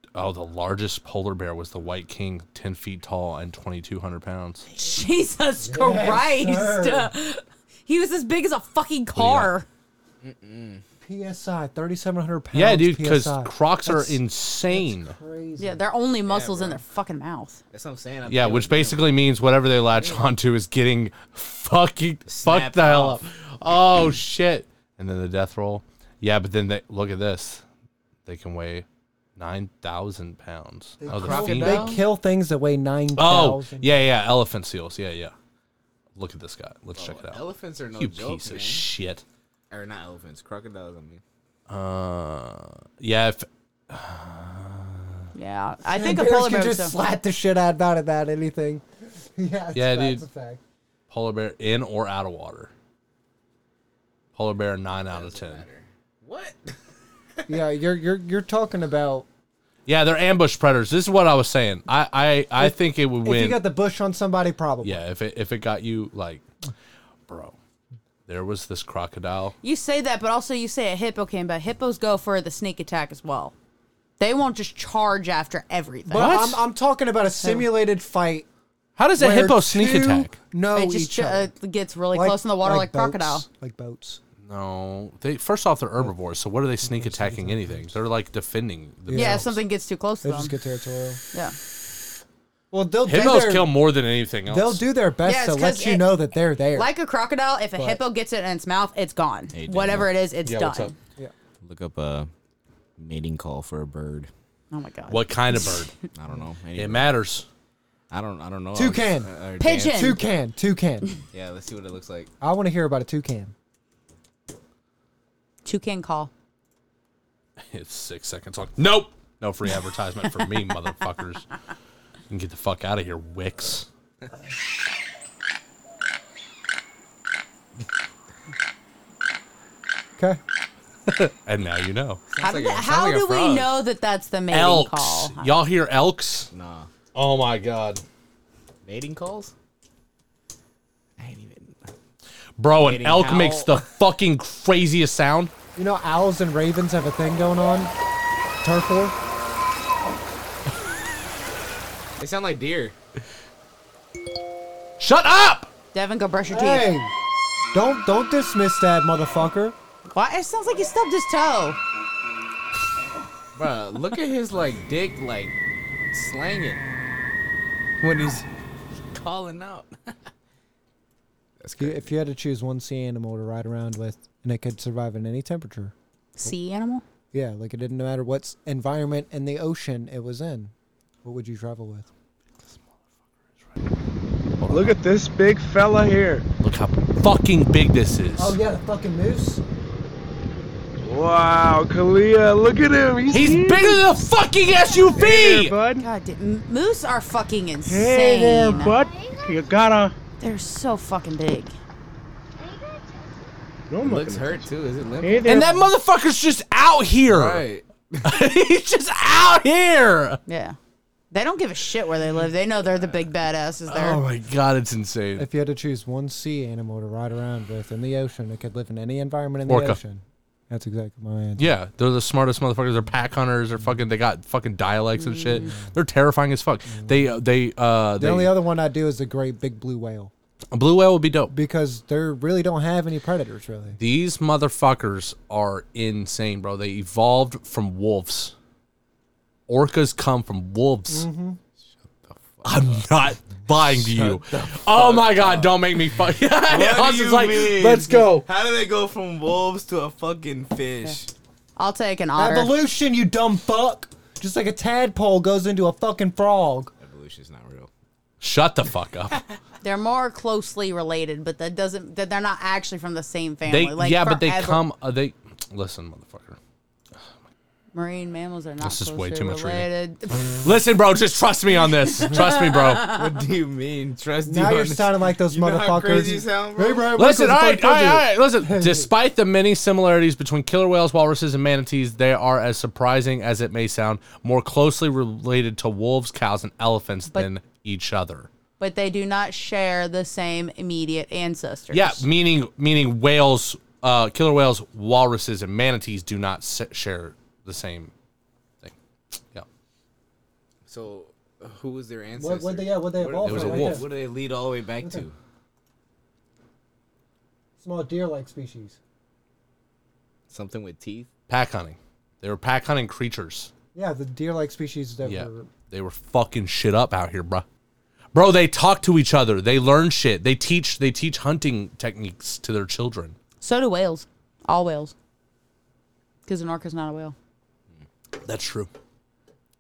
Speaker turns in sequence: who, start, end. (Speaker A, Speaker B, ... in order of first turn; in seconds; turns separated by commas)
Speaker A: 0.1-4.7, Speaker B: 4.7-9.7, Speaker C: 5.6-7.1, Speaker A: 9.2-9.5, Speaker D: 10.2-10.8, Speaker C: 11.0-15.8, Speaker A: 12.5-15.2, Speaker B: 15.6-17.6, Speaker D: 16.3-16.8, Speaker D: 17.7-19.2, Speaker A: 18.3-27.6, Speaker D: 22.3-23.2, Speaker A: 28.3-28.9, Speaker A: 29.4-32.0, Speaker C: 31.0-34.0, Speaker D: 31.1-32.0, Speaker A: 33.2-35.3, Speaker A: 36.2-37.4, Speaker D: 37.0-38.9, Speaker A: 38.0-39.2, Speaker D: 39.7-41.2, Speaker A: 41.7-45.1, Speaker B: 45.4-47.0, Speaker C: 45.9-50.6, Speaker A: 49.8-50.2, Speaker A: 51.1-52.7, Speaker A: 54.4-55.7, Speaker D: 55.1-56.8, Speaker C: 57.5-59.3, Speaker A: 59.9-63.6, Speaker C: 62.6-65.0, Speaker A: 64.8-66.4, Speaker A: 67.3-67.5, Speaker A: 68.3-69.6, Speaker B: 69.6-73.5, Speaker B: 74.2-76.4, Speaker C: 76.1-78.5, Speaker A: 76.1-76.6, Speaker A: 79.0-80.4, Speaker C: 79.2-81.5, Speaker B: 80.7-83.5, Speaker C: 82.1-84.2, Speaker A: 84.4-89.6, Speaker C: 86.8-87.9, Speaker C: 89.1-89.5, Speaker B: 89.2-90.5, Speaker C: 90.2-91.2, Speaker C: 92.7-93.9, Speaker A: 93.0-94.8, Speaker C: 94.5-96.9, Speaker B: 95.2-96.2, Speaker B: 96.7-100.9, Speaker C: 97.8-98.0, Speaker D: 99.5-100.1, Speaker A: 100.4-100.9, Speaker D: 101.6-102.3, Speaker D: 103.0-104.3, Speaker B: 104.7-105.8, Speaker A: 105.1-106.0, Speaker D: 106.1-107.2, Speaker A: 106.8-107.5, Speaker D: 108.1-110.2, Speaker C: 108.7-109.3, Speaker B: 109.6-110.2, Speaker C: 109.9-111.1, Speaker D: 111.3-112.3, Speaker C: 112.4-113.5, Speaker B: 115.7-116.3, Speaker A: 117.7-121.5, Speaker A: 122.3-123.9, Speaker A: 131.1-132.2, Speaker D: 132.3-133.7, Speaker B: 132.4-135.6, Speaker A: 134.5-136.5, Speaker D: 136.5-136.9, Speaker A: 137.1-138.0, Speaker D: 138.8-139.5, Speaker D: 141.2-141.9, Speaker A: 142.6-145.5, Speaker D: 142.8-143.8, Speaker C: 145.8-147.9, Speaker C: 148.6-149.2, Speaker D: 152.2-152.9, Speaker A: 155.0-155.7, Speaker B: 155.9-156.9, Speaker C: 156.5-157.1, Speaker C: 157.7-159.8, Speaker B: 160.1-161.8, Speaker D: 163.6-165.6, Speaker D: 166.1-166.8, Speaker D: 168.0-168.5, Speaker D: 169.1-170.3, Speaker D: 171.6-172.1, Speaker C: 171.8-175.9, Speaker B: 176.4-177.0, Speaker C: 177.3-180.7, Speaker C: 181.2-182.1, Speaker A: 184.6-185.0, Speaker E: 184.7-186.5, Speaker A: 186.6-188.6, Speaker C: 188.4-189.6, Speaker E: 191.0-194.0, Speaker A: 193.3-195.8, Speaker E: 195.2-196.1, Speaker B: 195.9-199.0, Speaker E: 197.8-200.1, Speaker B: 200.4-201.8, Speaker E: 203.9-204.7, Speaker D: 204.0-205.7, Speaker E: 205.2-205.9, Speaker A: 205.5-207.7, Speaker D: 207.3-208.3, Speaker A: 208.2-210.4, Speaker B: 210.5-210.8, Speaker B: 211.3-214.2, Speaker D: 212.9-213.2, Speaker A: 213.9-215.5, Speaker C: 215.4-221.7, Speaker A: 219.7-220.0, Speaker A: 221.6-228.6, Speaker B: 225.2-225.7, Speaker C: 228.2-230.3, Speaker A: 230.7-231.5, Speaker C: 231.5-234.0, Speaker A: 234.0-238.5, Speaker A: 239.7-241.3, Speaker C: 241.1-241.6, Speaker D: 241.8-251.3, Speaker A: 242.6-248.5, Speaker B: 251.8-252.8, Speaker C: 252.4-256.9, Speaker D: 257.0-257.9, Speaker A: 258.4-259.4, Speaker B: 259.8-264.8, Speaker A: 263.7-266.6, Speaker B: 267.9-270.6, Speaker A: 268.8-269.9, Speaker A: 270.6-273.1, Speaker B: 272.3-273.0, Speaker D: 273.1-277.1, Speaker C: 274.4-279.1, Speaker A: 277.1-288.5, Speaker B: 288.8-292.3, Speaker A: 291.9-298.1, Speaker D: 300.9-305.4, Speaker C: 302.4-304.1, Speaker A: 303.4-304.1, Speaker C: 307.8-309.0, Speaker D: 310.5-311.3, Speaker A: 311.5-313.7, Speaker C: 313.9-315.7, Speaker A: 315.2-317.6, Speaker A: 318.3-323.4, Speaker B: 323.6-325.1, Speaker B: 326.5-327.4, Speaker A: 328.4-328.9